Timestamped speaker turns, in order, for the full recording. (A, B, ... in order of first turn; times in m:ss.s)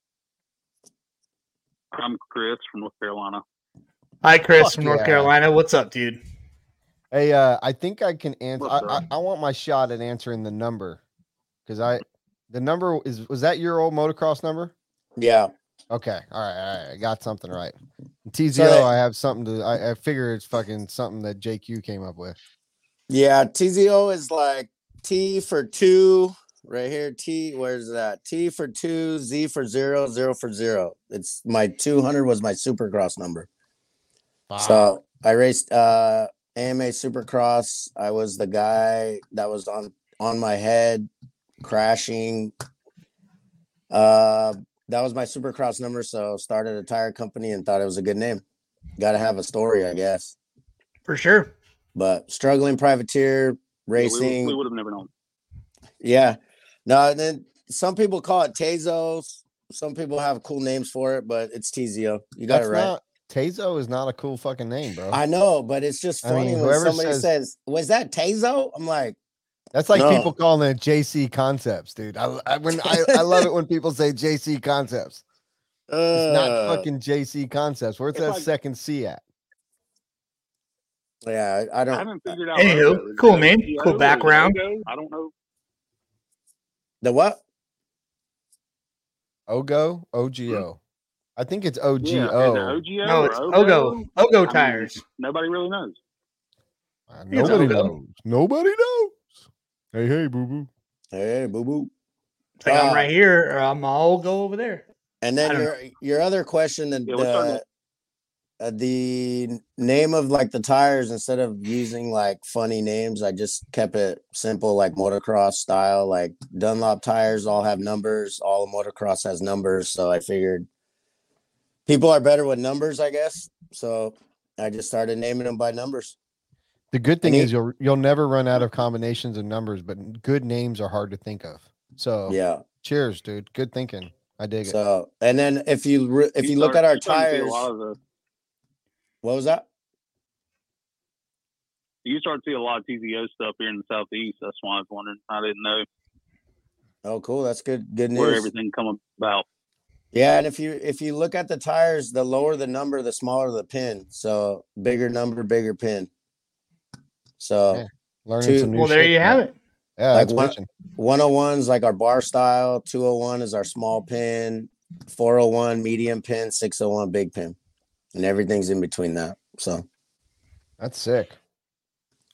0:01.9-0:03.4 A
0:04.2-0:06.2 B
0:04.6-0:05.3 C
0:07.1-0:11.0 C
0:08.6-0:09.0 A
0:11.7-0:14.7 C
0:15.2-0:15.5 D
0:15.9-0:22.4 C
0:18.5-0:18.9 D
0:23.1-0:33.5 D
0:34.5-0:35.0 C
0:34.6-0:41.1 D
0:41.6-0:42.5 D
0:43.9-0:48.4 D
0:49.0-0:50.3 D
0:51.1-0:51.5 B
0:51.9-0:54.6 D
0:54.0-0:55.1 A
0:56.0-1:02.9 D
1:02.5-1:05.2 C
1:05.1-1:09.2 D
1:06.2-1:07.3 C
1:09.7-1:15.2 C
1:09.9-1:10.3 D
1:12.9-1:13.4 D
1:15.9-1:16.8 D
1:16.1-1:19.2 C
1:18.1-1:18.5 A
1:21.2-1:22.3 D
1:21.9-1:25.3 A
1:22.5-1:24.6 B
1:27.0-1:27.4 D
1:29.5-1:30.8 C
1:31.4-1:32.8 C
1:32.0-1:36.0 A
1:33.0-1:35.0 B
1:37.1-1:39.2 C
1:37.3-1:37.9 B
1:37.4-1:37.8 A
1:39.9-1:40.7 C
1:41.1-1:41.9 D
1:42.6-1:44.8 B
1:42.7-1:43.1 D
1:45.2-1:47.6 D
1:45.4-1:45.7 B
1:47.1-1:47.6 A
1:48.6-2:00.7 D
2:01.9-2:06.2 D
2:06.9-2:14.8 C
2:07.2-2:07.5 D
2:12.3-2:12.6 D
2:14.6-2:17.6 D
2:16.4-2:18.0 A
2:19.2-2:19.6 D
2:22.0-2:25.8 A
2:27.0-2:28.5 D
2:28.1-2:29.4 A
2:30.1-2:36.1 D
2:37.4-2:37.8 D
2:37.7-2:39.4 C
2:38.4-2:38.7 D
2:38.7-2:39.6 B
2:40.0-2:40.7 C
2:40.1-2:47.6 D
2:48.1-2:49.8 D
2:50.8-2:51.4 C